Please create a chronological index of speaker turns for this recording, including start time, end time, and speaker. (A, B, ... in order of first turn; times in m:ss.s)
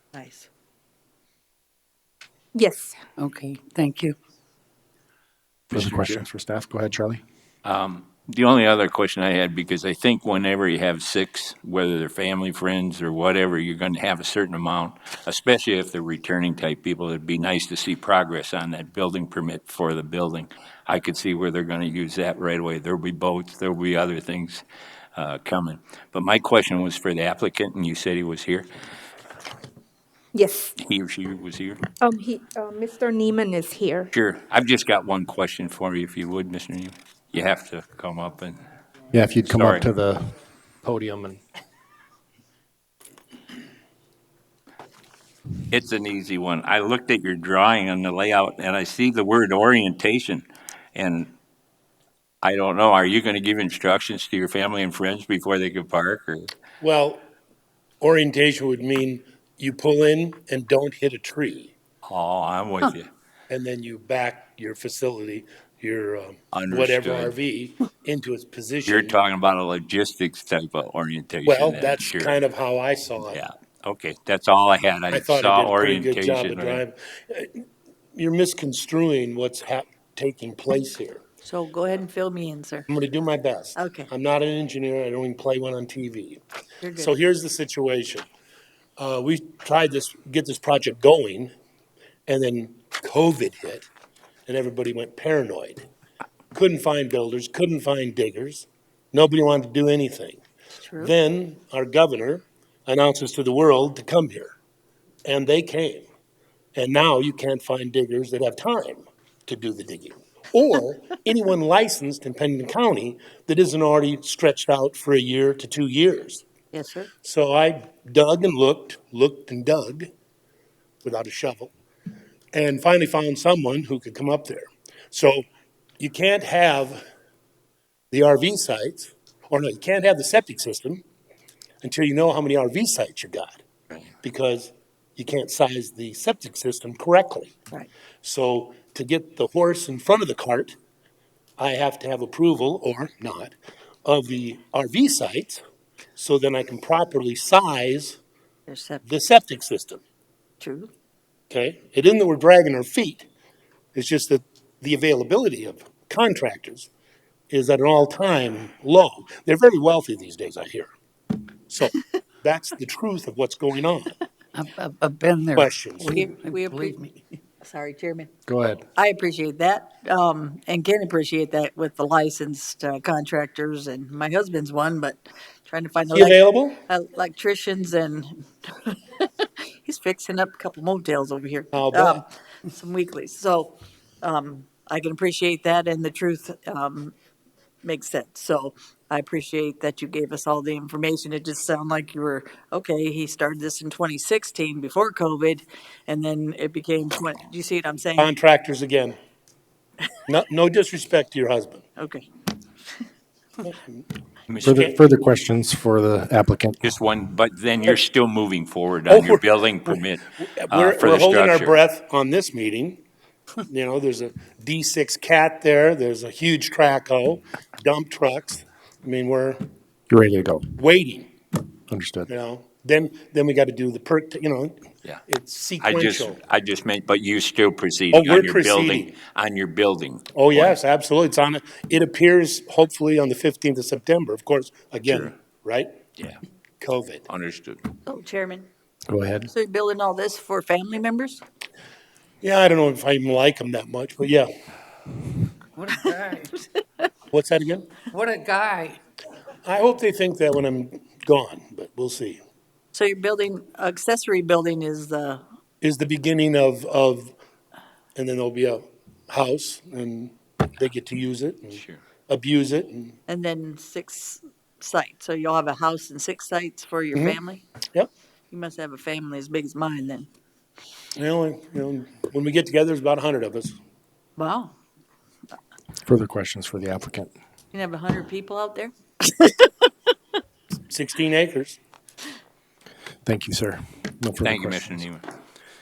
0:00.1-0:00.5 A
0:02.5-0:03.0 B
0:03.2-0:04.2 C
0:05.7-0:07.2 D
0:05.7-0:06.2 E
0:07.6-0:24.6 E
0:25.2-0:28.7 E
0:30.3-0:30.7 B
0:30.8-0:31.8 E
0:32.0-0:34.1 B
0:34.1-0:38.6 E
0:39.1-0:41.4 D
0:39.4-0:39.9 E
0:45.7-0:51.3 E
0:52.4-0:56.5 E
0:56.8-0:57.2 F
0:58.0-1:01.7 F
1:02.0-1:03.1 E
1:03.5-1:09.2 F
1:06.5-1:07.4 E
1:08.8-1:12.4 E
1:11.4-1:13.4 F
1:13.3-1:16.8 E
1:15.1-1:17.6 F
1:18.1-1:21.2 F
1:21.4-1:22.9 A
1:22.9-1:26.4 F
1:23.8-1:24.1 A
1:26.8-1:27.1 A
1:27.0-1:28.2 F
1:29.0-1:31.5 F
1:32.3-1:33.9 F
1:34.5-1:35.8 F
1:36.5-1:40.4 F
1:40.8-1:41.1 A
1:41.0-1:44.5 F
1:45.2-1:46.0 F
1:46.7-1:56.4 F
1:56.7-1:57.1 A
1:57.2-2:00.1 F
2:01.0-2:01.7 F
2:02.5-2:05.4 F
2:06.0-2:07.0 F
2:08.1-2:11.0 F
2:11.8-2:13.6 F
2:14.2-2:17.5 F
2:18.2-2:20.7 F
2:21.6-2:25.6 F
2:26.2-2:28.2 F
2:28.7-2:29.0 A
2:29.0-2:30.0 F
2:30.6-2:30.9 A
2:31.5-2:33.3 F
2:33.9-2:36.9 F
2:37.5-2:40.9 F
2:41.7-2:44.2 F
2:44.5-2:47.2 C
2:45.6-2:46.2 F
2:46.0-2:47.0 A
2:47.6-2:48.3 A
2:48.5-2:48.8 D
2:48.9-3:07.1 A
2:56.1-2:56.8 F
3:01.7-3:02.2 F
3:07.8-3:18.3 A
3:18.2-3:19.2 F
3:20.3-3:21.8 F
3:22.0-3:22.3 A
3:23.6-3:24.0 F
3:24.5-3:24.9 E
3:24.6-3:26.8 D
3:24.6-3:25.0 F
3:26.8-3:31.7 E
3:29.1-3:33.0 F
3:33.7-3:39.6 F
3:40.1-3:40.7 D
3:40.7-3:41.3 F
3:41.9-3:42.3 D
3:42.3-3:46.4 F
3:45.8-3:50.8 E
3:48.1-3:49.2 F
3:50.3-3:56.0 F
3:56.8-3:57.3 F
3:57.3-3:57.8 E
3:58.0-3:58.7 A
3:59.1-3:59.5 D
3:59.5-4:01.4 A
4:02.4-4:04.5 F
4:05.8-4:06.6 C
4:07.3-4:08.0 F
4:08.1-4:09.0 C
4:09.6-4:12.4 F
4:12.9-4:15.4 A
4:15.8-4:17.3 F
4:18.1-4:23.2 F
4:21.7-4:22.0 E
4:23.3-4:27.6 A
4:28.5-4:30.3 A
4:31.2-4:33.8 F
4:34.4-4:34.8 A
4:36.0-4:37.3 D
4:37.7-4:39.6 A
4:40.9-4:41.8 F
4:43.2-4:45.0 D
4:44.4-4:45.2 E